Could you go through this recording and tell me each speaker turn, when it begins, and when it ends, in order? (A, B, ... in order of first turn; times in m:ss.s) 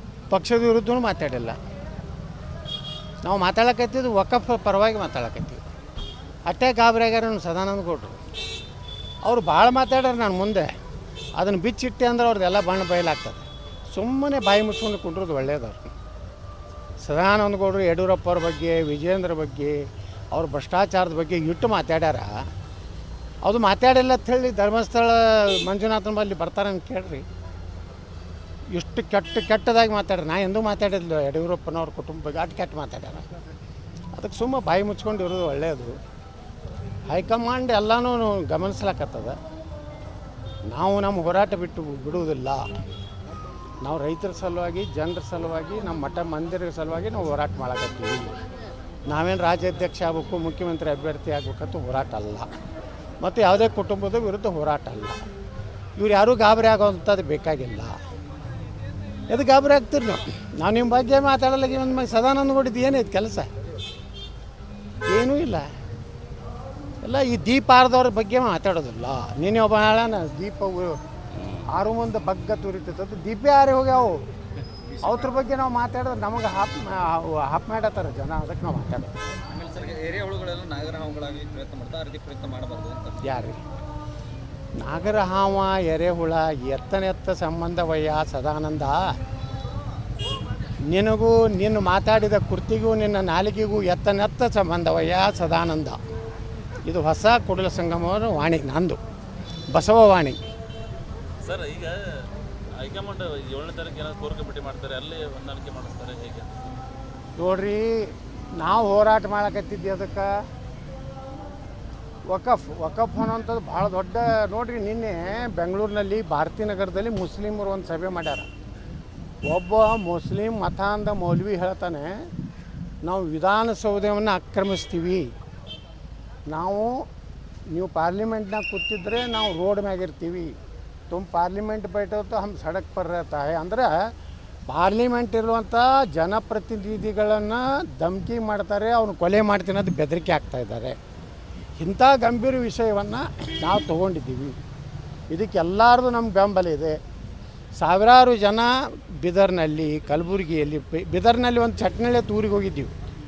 0:00.3-0:01.6 A
0:03.2-0:05.6 A
0:06.5-0:08.2 A
0:09.2-0:10.7 A
0:11.4-0:15.9 A
0:17.0-0:22.3 A
0:23.4-0:27.2 A
0:28.7-0:33.3 A
0:34.2-0:36.0 A
0:37.1-0:39.4 A
0:40.7-0:42.7 A
0:43.8-0:48.4 A
0:49.1-0:52.5 A
0:53.2-0:55.2 A
0:56.0-0:58.0 A
0:59.3-1:03.5 A
1:05.1-1:05.7 A
1:07.0-1:11.0 A
1:11.7-1:14.2 A
1:14.9-1:15.4 B
1:15.0-1:19.1 A
1:19.5-1:23.5 B
1:23.2-1:23.6 A
1:24.8-1:29.1 A
1:30.9-1:36.0 A
1:36.9-1:39.0 A
1:39.7-1:40.4 A
1:41.4-1:46.6 C
1:47.4-1:50.3 A
1:52.3-1:58.5 A
1:59.5-2:02.2 A
2:03.0-2:05.3 A
2:06.5-2:07.1 A
2:07.7-2:10.6 A
2:11.1-2:14.1 A
2:14.7-2:21.0 A
2:21.8-2:24.6 A
2:25.3-2:27.0 A
2:27.8-2:33.0 A